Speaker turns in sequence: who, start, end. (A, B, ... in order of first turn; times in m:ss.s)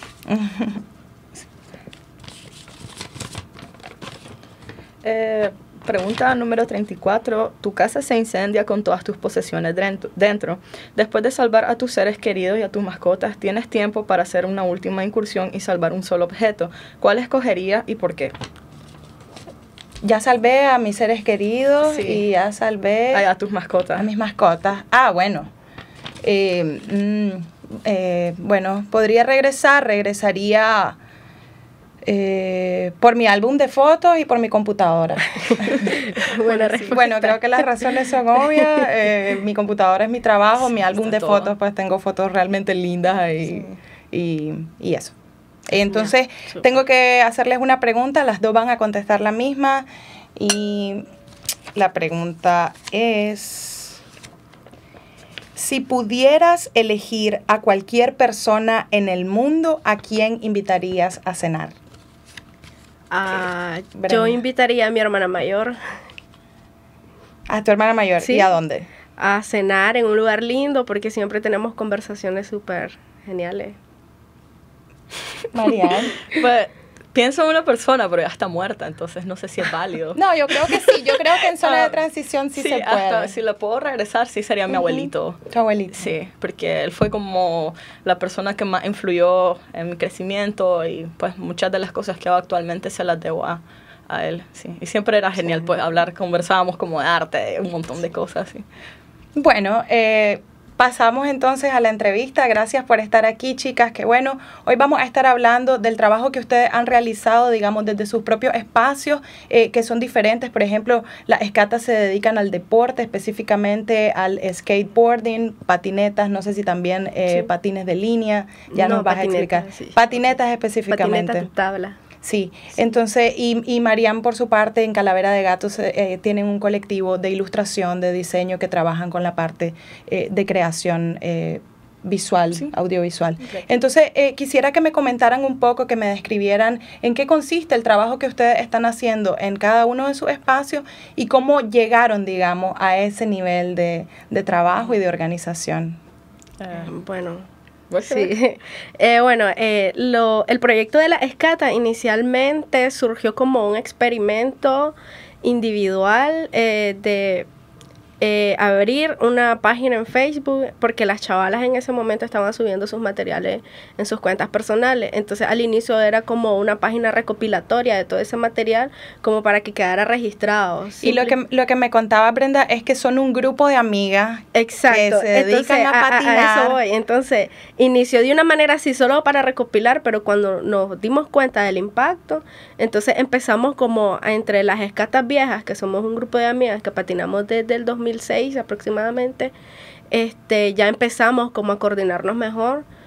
0:00.3-0:00.8 A
0:05.0-0:18.3 B
0:20.0-0:23.3 A
0:21.8-0:22.2 B
0:23.1-0:24.1 B
0:24.0-0:25.5 A
0:26.2-0:31.0 A
0:32.0-0:35.9 A
0:35.5-0:37.7 C
0:35.6-0:37.0 B
0:36.9-0:45.1 A
0:41.0-0:41.5 B
0:45.7-0:51.0 A
0:51.7-0:54.0 A
0:55.6-1:01.7 A
1:03.1-1:05.8 C
1:04.0-1:04.4 A
1:07.5-1:08.9 A
1:08.2-1:08.5 C
1:09.2-1:13.8 C
1:15.5-1:16.2 A
1:16.2-1:22.0 B
1:20.2-1:23.3 A
1:22.6-1:38.6 B
1:24.8-1:26.1 A
1:39.4-2:01.5 A
1:58.7-2:00.2 C
2:00.9-2:02.0 C
2:02.2-2:26.0 A
2:26.6-2:26.9 B
2:26.7-2:27.4 C
2:27.9-2:28.3 B
2:28.0-2:37.5 C
2:38.2-2:51.3 C
2:51.0-2:56.8 A
2:54.5-3:09.5 C
3:10.1-3:12.8 C